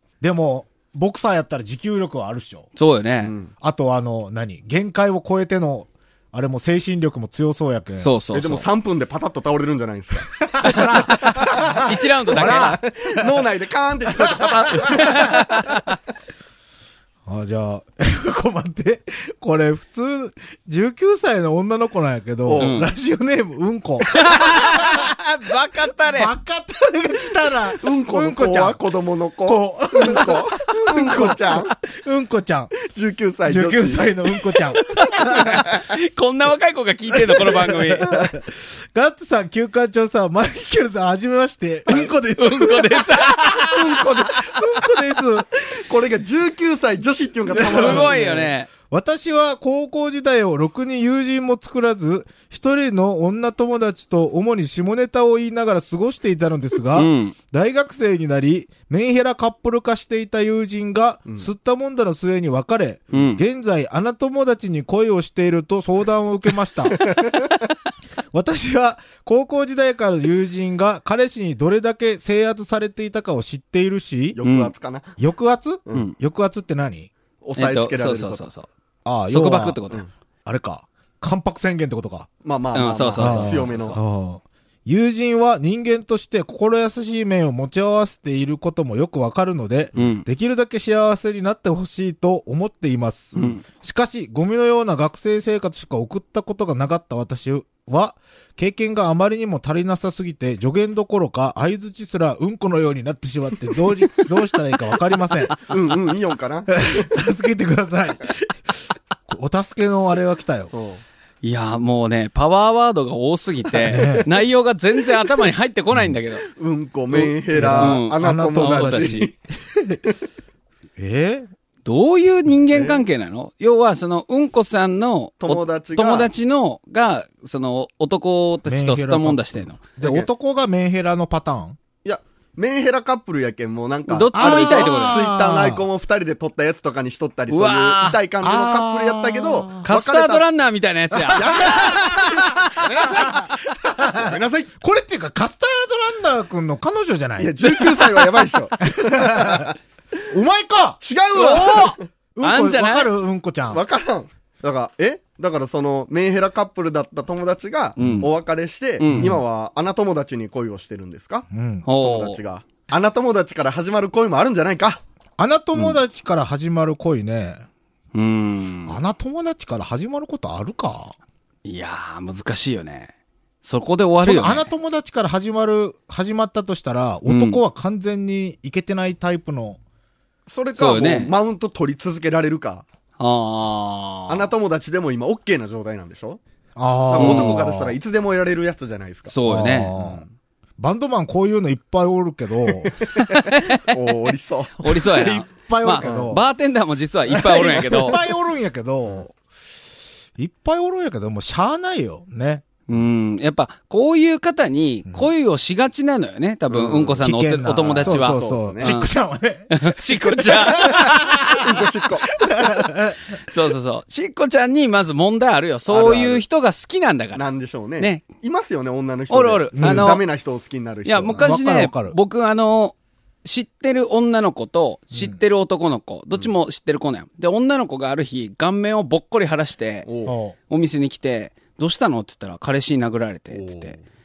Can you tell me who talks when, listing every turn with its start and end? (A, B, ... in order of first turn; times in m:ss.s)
0:00.2-0:02.7 A
0:02.8-0:03.3 B
0:03.2-0:03.5 C
0:03.6-0:08.1 A
0:08.0-0:08.7 B
0:08.3-0:15.7 C
0:10.6-0:13.3 A
0:10.6-0:12.8 B
0:14.2-0:15.4 A
0:14.7-0:15.9 B
0:17.2-0:25.1 A
0:22.4-0:22.8 C
0:22.6-0:22.9 B
0:24.1-0:26.3 B
0:26.1-0:28.8 A
0:27.8-0:31.7 C
0:29.4-0:32.7 A
0:32.8-0:34.2 C
0:33.5-0:35.6 A
0:35.1-0:38.2 B
0:35.2-0:35.8 C
0:37.1-0:45.5 A
0:41.9-0:44.0 B
0:43.7-0:48.2 C
0:47.5-1:07.1 A
0:47.5-0:48.7 B
0:56.9-0:57.4 B
1:03.1-1:03.4 B
1:07.1-1:07.4 C
1:08.3-1:14.4 A
1:14.3-1:15.2 C
1:14.4-1:14.7 B
1:15.2-1:17.1 A
1:17.4-1:18.5 C
1:17.6-1:18.7 B
1:19.0-1:19.8 A
1:19.3-1:20.0 B
1:20.4-1:22.3 A
1:22.4-1:24.0 C
1:22.7-1:24.0 B
1:23.2-1:45.6 A
1:29.9-1:30.2 B
1:33.3-1:33.6 B
1:45.7-1:47.1 C
1:46.7-1:48.4 A
1:49.3-1:50.7 A
1:50.7-1:51.0 C
1:51.4-1:56.4 B
1:53.8-1:54.3 A
1:56.4-1:59.4 C
1:57.1-2:00.0 A
1:57.7-1:59.3 B
2:01.0-2:01.5 A
2:01.8-2:09.8 B
2:02.7-2:03.0 C
2:05.4-2:06.3 C
2:08.6-2:11.8 A
2:10.0-2:10.3 C
2:12.0-2:20.4 C
2:14.1-2:15.2 B
2:14.3-2:15.9 A
2:17.5-2:18.2 B
2:18.4-2:19.9 A
2:19.8-2:23.5 B
2:21.1-2:29.7 A
2:21.3-2:23.4 C
2:24.0-2:24.7 C
2:27.4-2:29.8 C
2:30.3-2:33.8 A
2:31.0-2:32.0 C
2:32.4-2:33.1 B
2:33.7-2:41.5 C
2:38.0-2:38.3 B
2:38.0-2:38.3 A
2:39.0-2:39.4 B
2:39.1-2:39.4 A
2:41.5-2:41.9 A
2:41.9-2:42.4 B
2:42.0-2:45.0 C
2:45.4-2:47.6 A
2:48.1-2:49.0 B
2:48.9-2:51.2 A
2:51.6-2:53.1 B
2:53.6-2:54.7 B
2:54.2-2:59.8 A
2:57.2-2:57.6 B
3:00.5-3:02.8 C
3:00.8-3:01.3 B
3:03.2-3:04.5 B
3:04.3-3:06.4 C
3:06.8-3:07.9 A
3:07.1-3:09.4 C
3:07.2-3:07.6 B
3:09.3-3:09.9 B
3:09.4-3:10.2 A
3:09.9-3:10.3 C
3:10.8-3:13.0 A
3:12.8-3:15.1 C
3:13.1-3:13.9 B
3:14.8-3:18.2 B
3:15.1-3:16.4 A
3:16.0-3:16.4 C
3:17.4-3:19.4 A
3:17.4-3:18.3 C
3:20.4-3:22.8 A
3:22.9-3:29.1 B
3:26.7-3:27.2 C
3:27.1-3:33.4 A
3:27.8-3:28.9 C
3:29.7-3:31.6 B
3:31.5-3:32.4 C
3:33.3-3:37.4 B
3:35.9-3:36.4 C
3:37.4-3:41.4 C
3:38.0-3:38.2 B
3:39.3-3:40.2 B
3:39.8-3:40.2 A
3:41.0-3:50.1 B
3:41.3-3:42.2 A
3:45.1-3:45.4 A
3:50.0-3:50.4 C
3:50.2-3:50.6 A
3:50.7-3:54.0 B
3:53.5-3:54.0 C